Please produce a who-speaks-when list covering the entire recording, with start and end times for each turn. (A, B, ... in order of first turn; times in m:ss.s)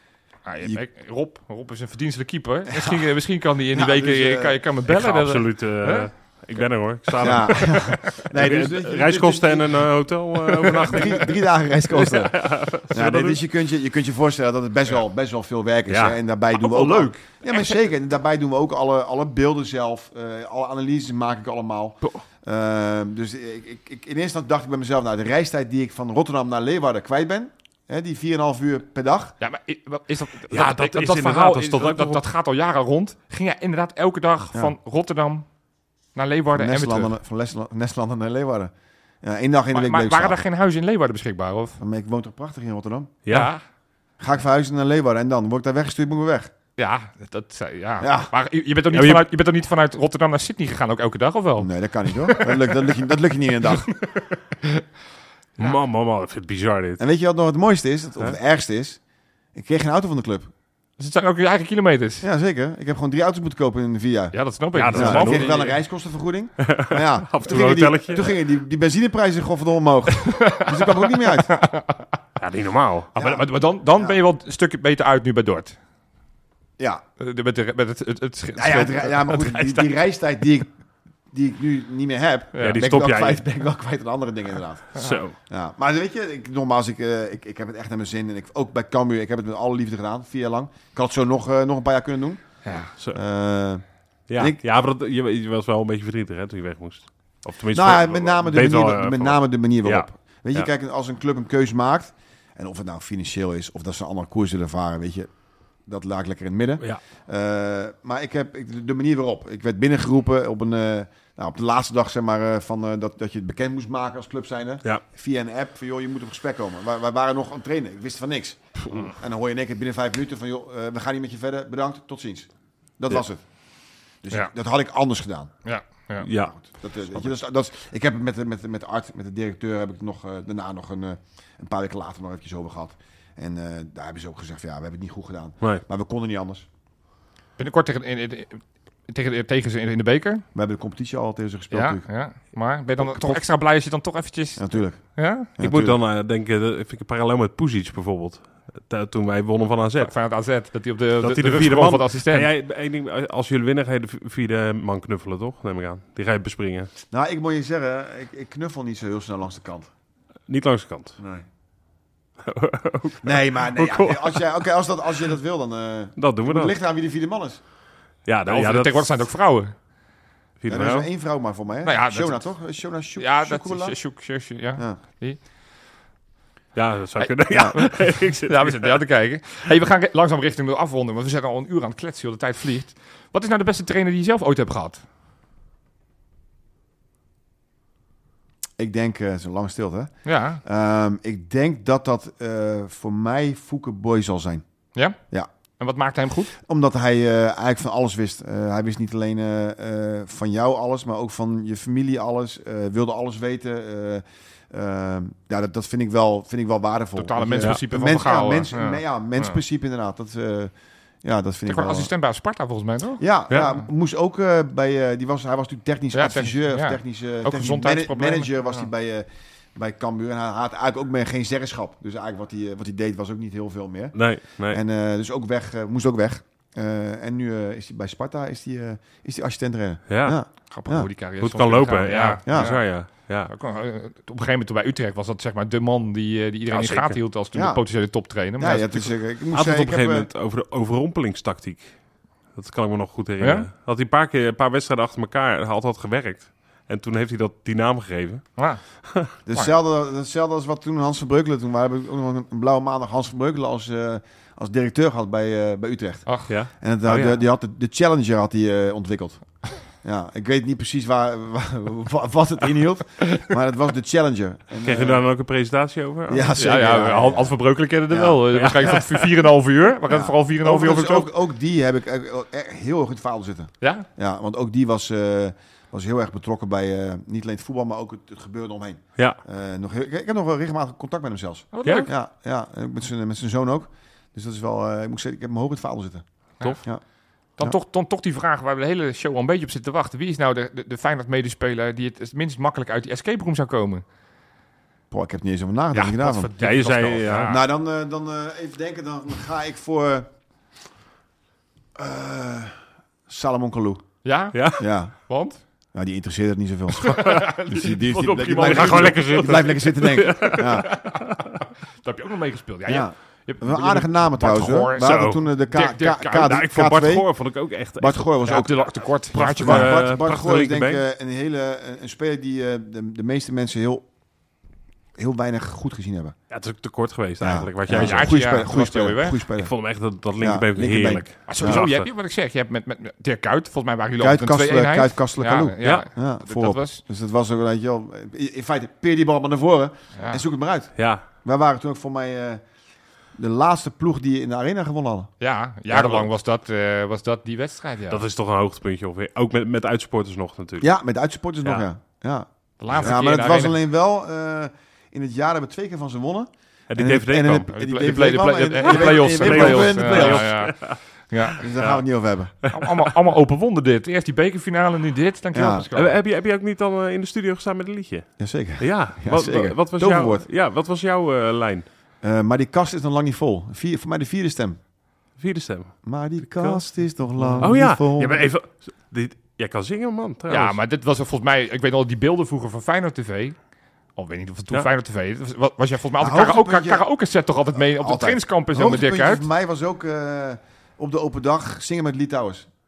0:00.5-0:06.1 A
0:02.7-0:03.1 B
0:03.7-0:04.6 B
0:04.9-0:13.4 C
0:07.2-0:29.4 B
0:15.9-0:17.1 C
0:29.4-0:35.5 A
0:30.5-0:32.2 C
0:36.2-0:37.1 A
0:36.5-0:40.4 B
0:39.7-0:41.8 A
0:41.8-0:43.2 B
0:43.2-0:43.5 C
0:43.3-0:43.6 A
0:44.2-0:46.5 B
0:46.8-0:52.8 A
0:48.0-0:48.3 B
0:48.9-0:49.2 C
0:51.6-0:54.0 B
0:55.6-0:57.0 C
0:57.0-0:59.0 B
0:59.5-1:00.5 B
1:01.0-1:02.3 A
1:02.2-1:04.4 B
1:04.3-1:05.8 A
1:04.8-1:05.7 C
1:04.9-1:11.5 B
1:06.6-1:08.3 C
1:10.2-1:12.1 A
1:12.4-1:13.1 C
1:13.2-1:15.8 A
1:13.2-1:13.4 B
1:17.2-1:19.9 A
1:18.6-1:20.7 B
1:21.3-1:33.9 B
1:22.6-1:22.8 A
1:22.6-1:23.4 C
1:25.0-1:25.4 C
1:32.6-1:32.9 A
1:34.3-1:40.7 C
1:37.7-1:45.3 B
1:45.8-2:03.4 B
1:58.9-1:59.1 C
2:04.2-2:05.5 B
2:05.6-2:06.3 A
2:06.2-2:06.5 C
2:06.3-2:16.7 B
2:17.6-2:20.4 A
2:20.6-2:22.1 B
2:21.7-2:25.5 A
2:24.6-2:25.0 B
2:25.6-2:26.0 B
2:25.6-2:30.1 C
2:30.0-2:32.5 A
2:31.2-2:36.9 C
2:37.1-2:39.9 B
2:40.5-2:41.2 C
2:41.2-2:41.4 B
2:42.4-2:44.6 C
2:43.2-2:47.6 B
2:46.2-2:46.7 C
2:48.3-2:49.1 C
2:48.5-2:49.7 A
2:50.6-2:51.1 C
2:50.7-2:54.0 B
2:51.8-2:52.6 A
2:53.2-2:55.4 A
2:56.8-2:58.9 C
2:57.2-3:05.0 A
2:57.5-2:57.8 B
3:08.8-3:14.6 B
3:10.2-3:10.6 A
3:15.8-3:16.5 A
3:16.6-3:30.7 B
3:27.2-3:29.6 A
3:31.2-3:32.1 B
3:31.7-3:33.8 A
3:33.2-3:51.1 B
3:36.1-3:38.8 A
3:44.2-3:44.8 C
3:50.1-3:50.4 C
3:50.7-3:59.1 A
3:51.4-3:53.5 C
3:52.5-3:52.8 B
3:56.7-3:57.2 C
3:57.5-3:57.8 B
3:58.6-4:00.3 B
3:59.5-4:09.3 C
4:03.4-4:03.7 A
4:08.6-4:09.7 A
4:09.5-4:25.2 B
4:16.5-4:17.4 C
4:24.8-4:26.5 C
4:26.3-4:27.6 B
4:26.6-4:31.3 A
4:28.1-4:29.0 B
4:28.5-4:29.3 C
4:30.1-4:46.2 B
4:33.8-4:34.1 A
4:41.7-4:42.1 A
4:47.6-4:54.0 A
4:55.1-4:56.5 B
4:55.9-4:57.6 A
4:56.6-4:57.6 C
4:57.5-5:00.3 B
5:02.0-5:02.8 B
5:03.3-5:04.0 B
5:04.2-5:05.6 A
5:04.5-5:04.8 C
5:04.7-5:05.1 B
5:05.9-5:11.0 B
5:07.0-5:09.8 A
5:07.2-5:11.5 C
5:10.4-5:16.6 A
5:12.9-5:17.3 B
5:15.0-5:15.4 C
5:16.4-5:18.3 C
5:18.0-5:24.1 B
5:18.4-5:20.1 A
5:19.4-5:21.0 C
5:25.2-5:26.4 B
5:26.5-5:28.4 C
5:27.4-5:29.7 B
5:27.9-5:29.4 A
5:29.6-5:32.1 C
5:30.4-5:31.9 B
5:31.5-5:37.0 A
5:34.2-5:42.6 B
5:40.2-5:40.4 A
5:41.0-5:41.2 C
5:43.4-5:45.3 B
5:45.4-5:48.2 A
5:46.0-5:46.2 C
5:48.1-5:50.9 C
5:50.8-6:00.7 B
5:52.8-5:53.8 A
5:56.9-5:57.7 C
5:57.7-6:01.7 A
5:58.8-6:01.0 C
6:01.6-6:02.0 C
6:01.6-6:02.5 B
6:02.6-6:02.9 C
6:02.7-6:06.2 A
6:05.5-6:05.9 B
6:06.0-6:11.9 C
6:08.4-6:10.5 B
6:12.2-6:14.8 B
6:15.4-6:16.9 C
6:16.0-6:18.5 B
6:17.4-6:17.7 A
6:17.5-6:20.8 C
6:20.5-6:23.6 A
6:24.2-6:29.5 A
6:26.2-6:27.1 B
6:27.8-6:32.7 B